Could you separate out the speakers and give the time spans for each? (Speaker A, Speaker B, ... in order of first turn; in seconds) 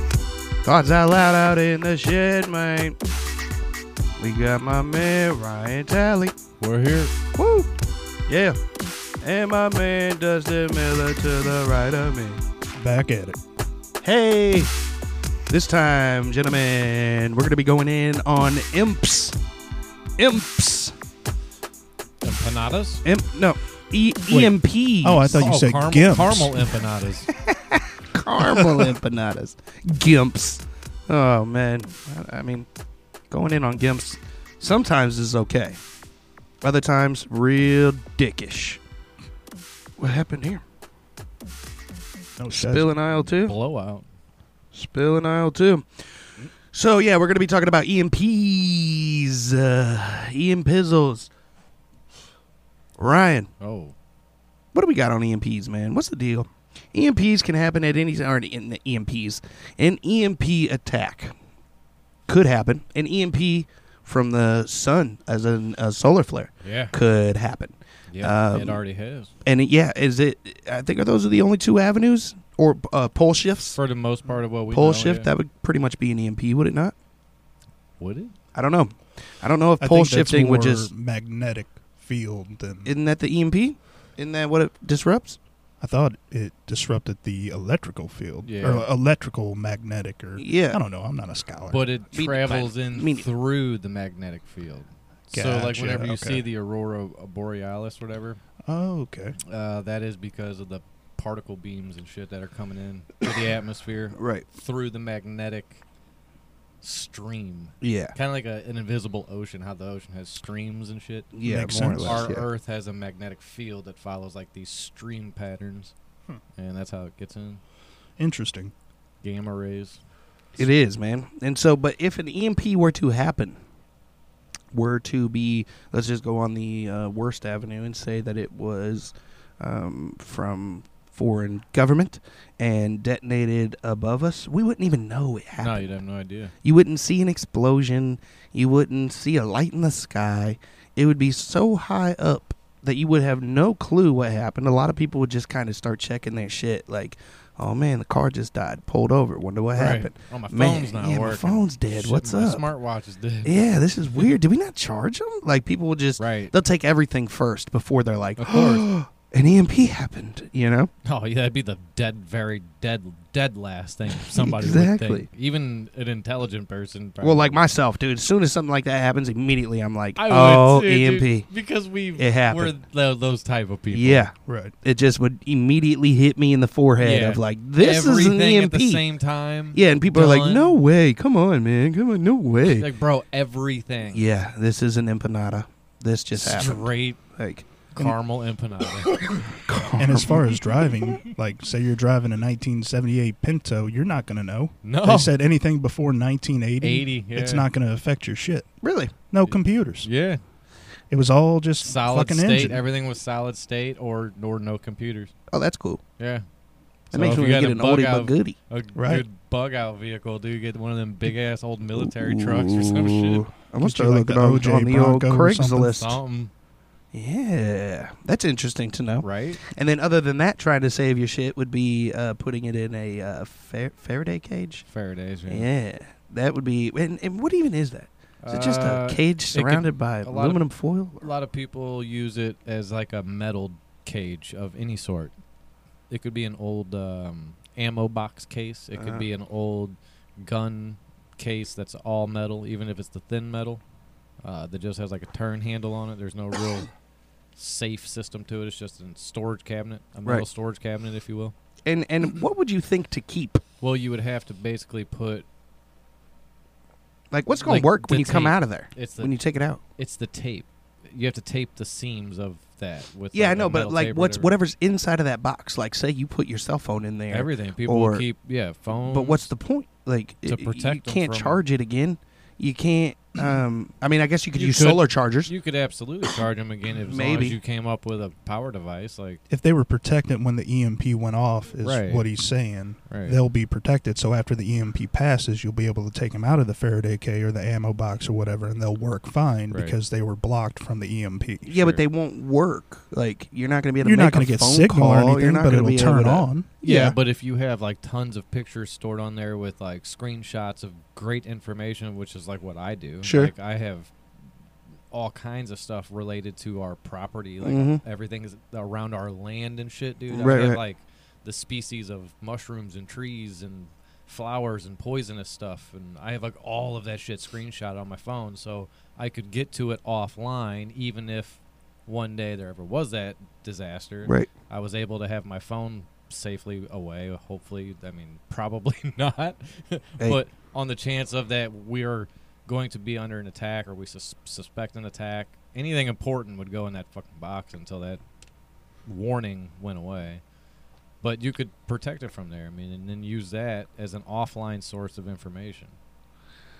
Speaker A: 0.6-3.0, 4.2-6.3, 7.4-7.7, 8.3-8.6, 9.2-12.4, 14.0-14.7, 15.5-19.4, 20.2-20.9, 23.0-25.5, 27.4-32.7, 33.3-35.8, 36.6-38.8, 40.0-40.6, 42.5-43.5, 44.7-46.0, 46.7-51.3, 53.0-53.5, 54.7-61.3, 62.3-68.8, 69.4-73.8, 74.7-76.9, 78.5-80.9, 82.8-85.4, 90.4-90.8, 92.1-93.2, 104.1-104.4, 107.8-108.1, 111.3-112.4, 120.6-123.6, 124.7-135.9, 136.6-152.6, 153.4-160.9, 164.2-165.3, 167.2-171.5, 172.2-172.7, 173.9-179.0, 179.7-182.9, 184.1-188.1, 189.1-190.6, 198.8-199.1, 205.5-206.0, 207.1-208.6, 212.0-216.2, 217.1-224.8, 225.5-231.3, 238.9-239.2, 251.8-253.6, 257.3-259.8, 263.3-268.2, 269.0-275.5, 277.0-277.6, 291.7-297.1, 303.2-303.5, 307.6-308.0, 310.3-310.8, 324.2-324.5
Speaker B: 6.6-7.1, 22.2-23.0, 25.4-27.3, 43.1-44.0, 53.6-53.9, 66.6-66.9, 68.1-69.3, 73.7-75.3, 78.0-78.3, 88.4-88.9, 91.7-98.4, 99.5-105.8, 106.8-111.3, 112.0-115.9, 116.6-117.6, 119.2-120.0, 135.6-136.5, 149.7-153.6, 156.2-156.5, 158.4-158.8, 161.0-167.6, 170.2-174.3, 177.0-180.7, 182.7-184.3, 186.3-187.2, 187.9-189.2, 194.8-195.3, 196.8-197.7, 199.4-200.4, 201.8-205.3, 206.2-206.4, 207.1-213.4, 215.9-216.5, 219.2-219.6, 224.9-225.7, 228.4-230.6, 231.2-235.3, 236.1-243.8, 244.4-246.9, 247.6-251.5, 253.8-255.4, 257.6-259.4, 260.0-264.5, 267.3-269.5, 270.4-271.6, 274.5-279.4, 281.8-282.3, 283.1-283.4, 289.7-289.9, 291.7-292.0, 296.8-304.1, 305.1-338.2, 339.1-340.4, 341.2-345.9
Speaker C: 12.8-13.4, 24.3-26.6, 28.4-29.0, 42.4-42.9, 79.8-82.9, 85.8-91.9, 95.3-96.5, 98.7-99.3, 111.4-112.2, 118.2-118.7, 174.4-174.7, 189.9-198.7, 199.3-200.1, 201.1-202.8, 207.1-207.5, 208.9-209.2, 213.8-216.0, 279.5-291.7, 294.0-296.7